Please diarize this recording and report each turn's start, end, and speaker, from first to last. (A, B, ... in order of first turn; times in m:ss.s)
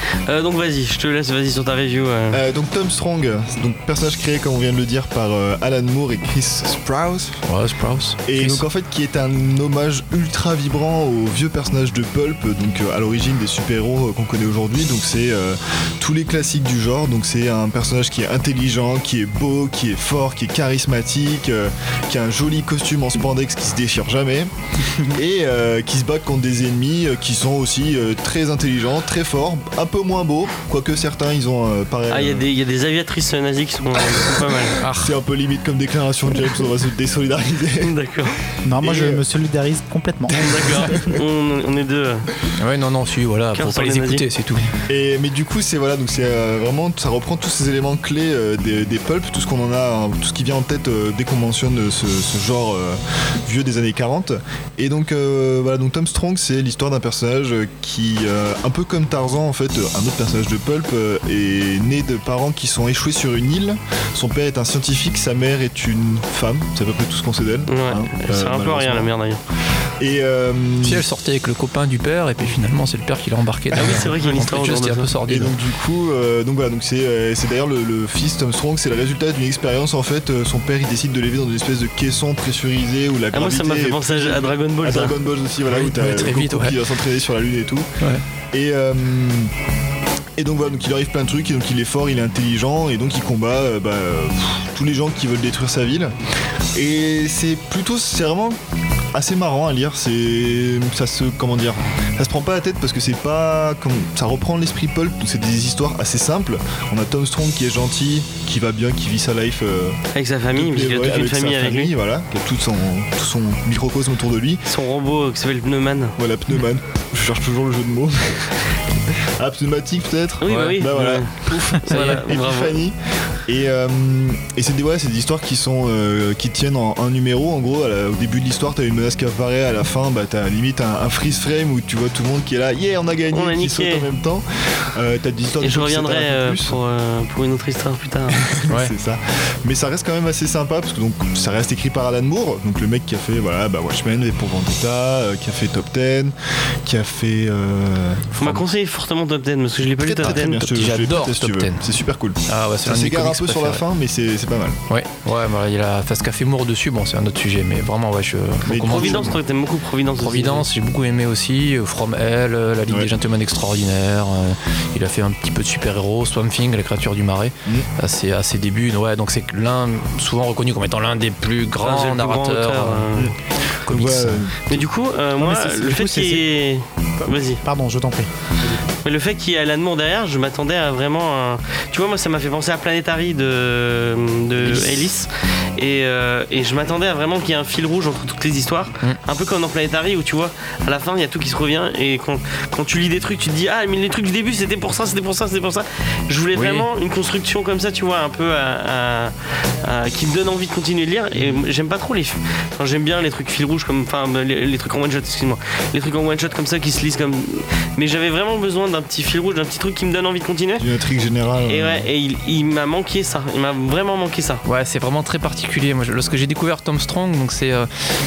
0:00.2-0:02.4 A
0:02.3-0:07.4 B
0:07.5-0:08.6 C
0:08.3-0:24.5 B
0:25.0-0:32.5 B
0:32.1-0:34.8 A
0:34.8-0:35.2 C
0:35.0-0:37.9 B
0:37.8-0:38.4 A
0:38.6-0:40.9 D
0:38.8-0:39.2 B
0:40.3-0:42.3 A
0:40.5-0:41.2 B
0:42.6-0:44.7 C
0:43.6-0:44.2 A
0:44.9-1:09.1 B
1:07.7-1:09.4 A
1:10.0-1:11.0 B
1:10.8-1:15.5 C
1:13.7-1:15.1 A
1:15.3-1:27.9 B
1:23.3-1:25.2 A
1:25.7-1:26.8 C
1:28.5-1:29.5 B
1:30.4-1:36.2 B
1:36.8-1:38.6 B
1:39.1-1:50.0 B
1:50.1-1:51.9 A
1:50.5-1:54.6 B
1:54.7-1:56.2 A
1:56.2-2:16.8 B
2:00.4-2:02.8 A
2:00.5-2:00.8 C
2:01.9-2:02.3 C
2:13.3-2:14.1 A
2:15.6-2:18.5 A
2:18.3-2:28.5 B
2:28.4-2:30.7 A
2:29.8-2:34.8 B
2:30.2-2:31.8 C
2:32.5-2:33.8 C
2:34.9-2:39.4 C
2:38.7-2:39.4 B
2:38.8-2:40.7 A
2:40.2-2:53.1 C
2:51.8-2:53.3 A
2:53.9-2:54.4 C
2:53.9-2:54.9 B
2:54.7-2:57.6 A
2:55.4-2:56.4 D
2:57.2-2:58.3 D
2:59.0-3:30.9 A
3:16.5-3:16.9 C
3:21.4-3:21.6 B
3:30.8-3:32.1 B
3:31.7-3:34.6 A
3:34.6-3:37.9 C